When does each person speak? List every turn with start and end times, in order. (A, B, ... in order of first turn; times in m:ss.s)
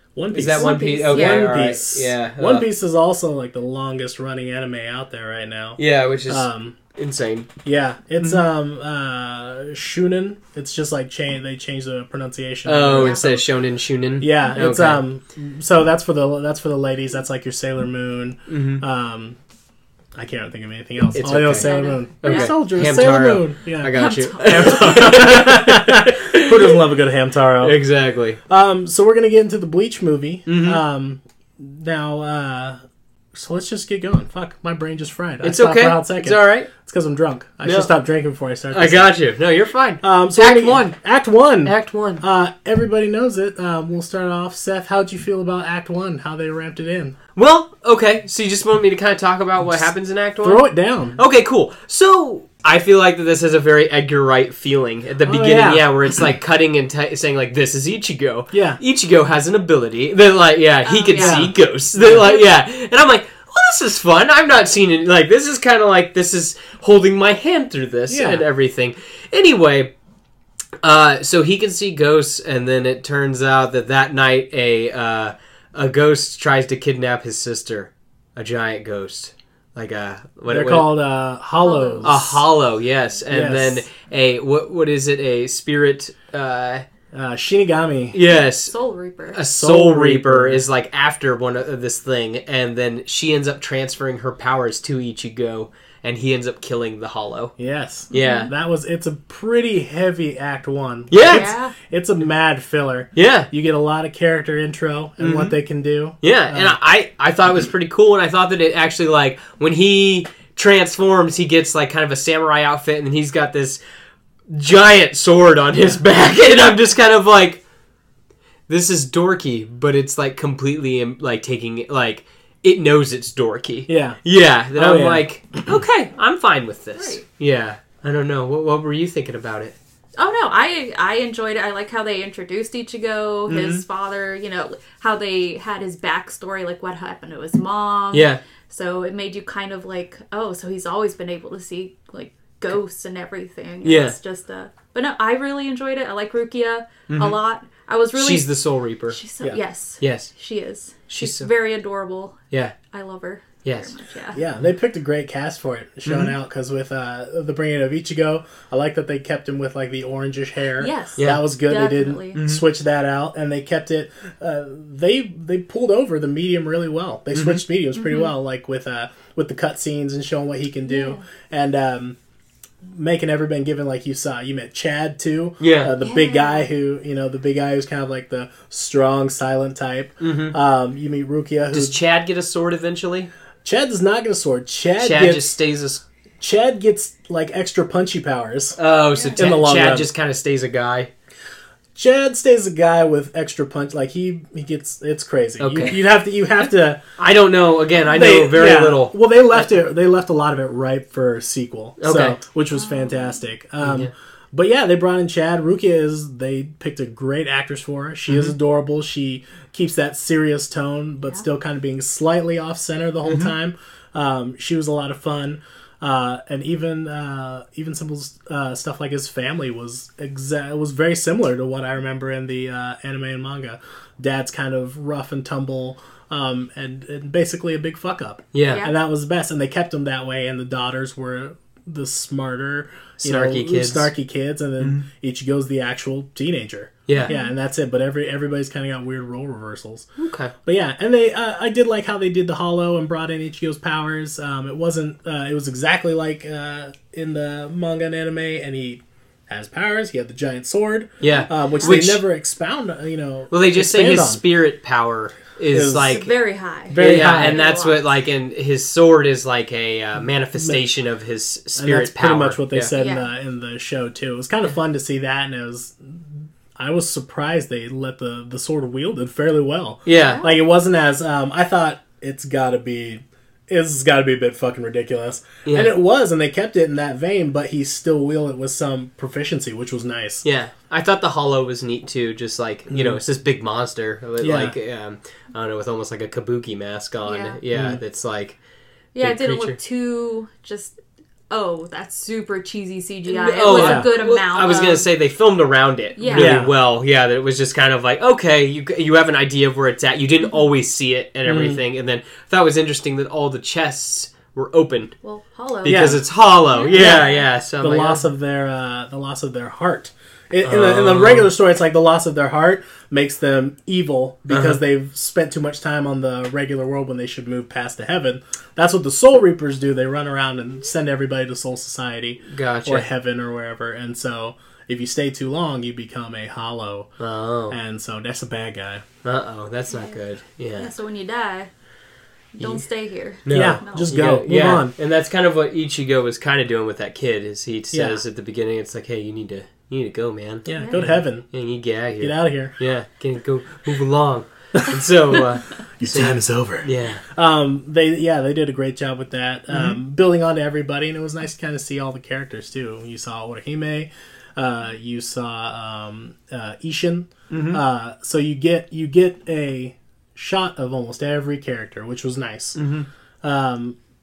0:00.2-0:06.8 A
0:00.3-0:02.7 B
0:00.6-0:01.6 C
0:05.8-0:07.5 B
0:07.6-0:13.4 A
0:12.7-0:15.0 B
0:12.9-0:13.4 C
0:14.2-0:19.4 A
0:18.5-0:18.8 B
0:20.2-0:27.8 A
0:21.2-0:26.8 B
0:21.5-0:23.2 C
0:23.9-0:25.4 C
0:27.6-0:28.4 B
0:28.5-0:32.8 A
0:30.5-0:30.8 B
0:33.3-0:39.2 A
0:35.4-0:36.7 B
0:37.6-0:37.9 B
0:38.7-0:41.0 B
0:40.0-0:47.2 A
0:41.6-0:42.2 B
0:47.4-1:09.9 B
0:50.4-0:51.2 A
0:55.2-0:55.8 A
0:58.5-0:58.8 A
1:00.8-1:01.6 C
1:01.1-1:02.4 A
1:08.1-1:08.4 A
1:10.8-1:20.9 B
1:20.5-1:22.4 A
1:21.6-1:22.2 C
1:22.0-1:26.8 B
1:23.3-1:23.8 A
1:27.1-1:28.2 A
1:28.1-1:28.7 B
1:28.2-1:29.4 C
1:29.3-1:37.5 B
1:29.5-1:30.6 A
1:37.6-1:46.8 A
1:38.1-1:38.5 B
1:38.1-1:38.5 C
1:41.1-1:41.5 B
1:41.2-1:41.8 C
1:43.2-1:43.5 B
1:45.2-1:45.6 B
1:46.2-1:53.8 B
1:54.5-1:57.6 B
1:58.7-2:09.8 B
2:03.9-2:04.2 A
2:04.7-2:05.2 A
2:10.2-2:28.5 C
2:18.1-2:18.4 B
2:23.8-2:24.2 B
2:27.1-2:27.4 B
2:28.2-2:29.2 B
2:29.1-2:32.4 C
2:30.0-2:30.3 B
2:31.1-2:31.5 B
2:32.9-2:34.4 C
2:33.6-2:33.9 B
2:34.3-2:52.2 A
2:36.0-2:36.3 B
2:40.8-2:42.4 C
2:41.2-2:41.4 B
2:42.4-2:42.6 B
2:47.3-2:47.6 B
2:48.0-2:48.3 C
2:50.9-2:51.2 C
2:52.8-3:02.0 A
2:55.6-2:55.9 B
2:56.0-2:56.7 C
3:00.2-3:00.6 B
3:01.7-3:03.3 B
3:03.6-3:05.6 A
3:05.0-3:06.0 B
3:06.4-3:08.8 A
3:08.8-3:11.1 B
3:09.1-3:09.5 C
3:09.4-3:10.1 A
3:12.0-3:17.0 A
3:15.6-3:16.0 B
3:17.2-3:19.6 B
3:18.1-4:00.1 A
3:22.0-3:22.4 B
3:22.8-3:23.3 C
3:23.8-3:24.1 B
3:28.3-3:28.5 B
3:33.2-3:33.5 B
3:48.5-3:48.9 B
3:48.7-3:49.0 C
3:53.2-3:54.1 B
3:54.8-3:55.0 B
3:57.1-3:57.3 B
3:57.2-3:57.5 C
4:00.2-4:00.5 B
4:00.6-4:14.4 A
4:11.2-4:12.2 B
4:11.2-4:12.0 C
4:13.5-4:16.3 B
4:15.7-4:16.2 A
4:16.0-4:18.1 C
4:16.9-4:17.6 A
4:17.0-4:22.9 B
4:20.6-4:20.8 A
4:21.8-4:40.4 A
4:23.0-4:23.3 C
4:30.1-4:30.4 B
4:30.1-4:30.5 C
4:35.6-4:35.9 B
4:40.4-4:48.6 B
4:42.9-4:43.2 A
4:44.4-4:44.8 A
4:47.2-4:47.6 C
4:47.7-4:48.0 A
4:49.2-4:51.0 C
4:49.2-4:49.8 B
4:51.5-4:55.1 C
4:53.3-5:05.2 B
4:53.7-4:54.1 A
4:56.2-4:56.6 C
4:56.3-4:56.7 A
5:01.5-5:01.8 A
5:05.2-5:07.5 C
5:05.8-5:08.2 B
5:05.8-5:06.2 A
5:06.9-5:27.1 A
5:10.6-5:11.5 B
5:14.5-5:14.8 B
5:22.5-5:23.1 B
5:27.2-5:27.8 B
5:27.7-5:29.0 A
5:29.2-5:30.9 B
5:29.9-5:30.2 C
5:30.8-5:31.7 C
5:32.6-5:34.1 C
5:33.4-5:47.2 B
5:33.5-5:34.9 A
5:37.9-5:38.2 A
5:40.7-5:41.5 A
5:40.7-5:41.0 C
5:42.2-5:42.7 A
5:46.0-6:02.8 A
5:49.7-5:50.0 B
5:57.5-5:57.8 B
6:02.8-6:03.1 B
6:03.4-6:04.0 A